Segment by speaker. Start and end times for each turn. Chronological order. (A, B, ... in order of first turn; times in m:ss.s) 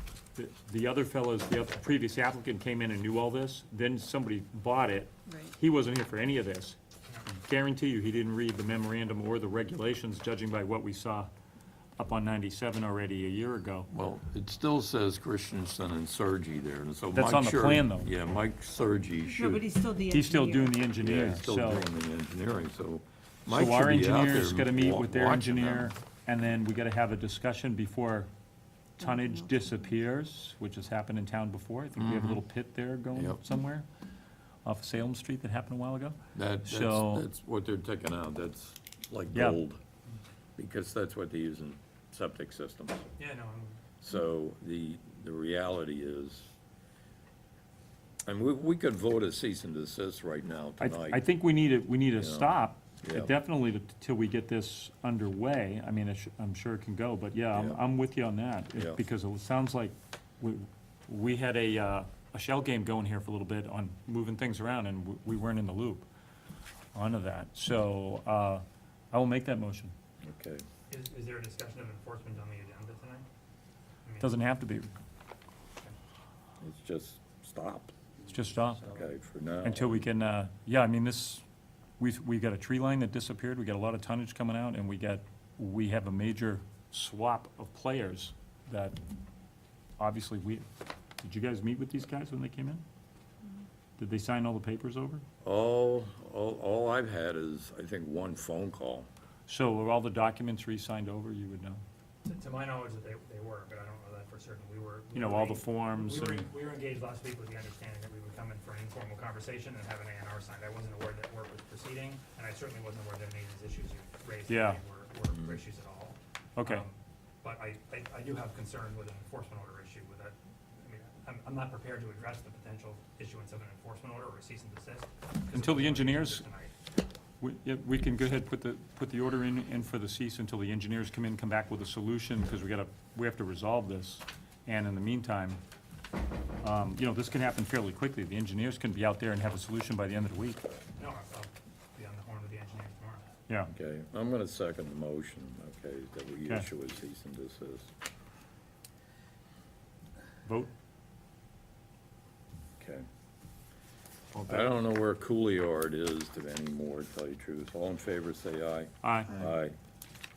0:00.4-0:11.3 A
0:12.0-0:13.9 A
0:13.9-0:19.7 B
0:17.1-0:18.1 A
0:19.3-0:20.8 C
0:20.1-0:21.8 A
0:20.9-0:25.9 B
0:23.5-0:28.3 A
0:29.0-0:33.8 A
0:29.0-0:29.8 C
0:32.0-0:32.4 B
0:33.1-0:33.4 B
0:34.6-0:37.2 A
0:36.3-0:39.8 B
0:39.3-0:39.6 A
0:40.6-0:43.1 B
0:43.2-0:43.8 D
0:44.0-0:46.5 B
0:48.2-0:51.3 B
0:50.8-1:06.0 A
0:52.1-0:53.3 B
0:57.5-0:57.8 B
1:06.9-1:09.9 A
1:10.2-1:10.6 B
1:10.9-1:13.2 D
1:14.0-1:14.3 D
1:14.2-1:14.9 A
1:16.6-1:17.9 B
1:18.3-1:18.8 A
1:18.8-1:20.0 B
1:19.6-1:21.4 A
1:22.0-1:29.0 A
1:30.0-1:30.6 A
1:31.2-1:32.8 A
1:34.0-1:35.2 A
1:35.4-1:39.1 B
1:39.5-1:41.8 A
1:42.2-2:06.7 D
1:45.1-1:46.5 A
1:54.5-1:54.8 A
1:56.6-1:56.8 A
2:05.5-2:06.4 A
2:07.4-2:15.6 A
2:16.6-2:20.6 A
2:21.0-2:23.3 D
2:23.7-2:27.9 B
2:30.4-2:30.7 A
2:32.8-2:33.1 B
2:34.3-2:34.7 A
2:34.5-2:39.8 B
2:39.0-2:39.4 A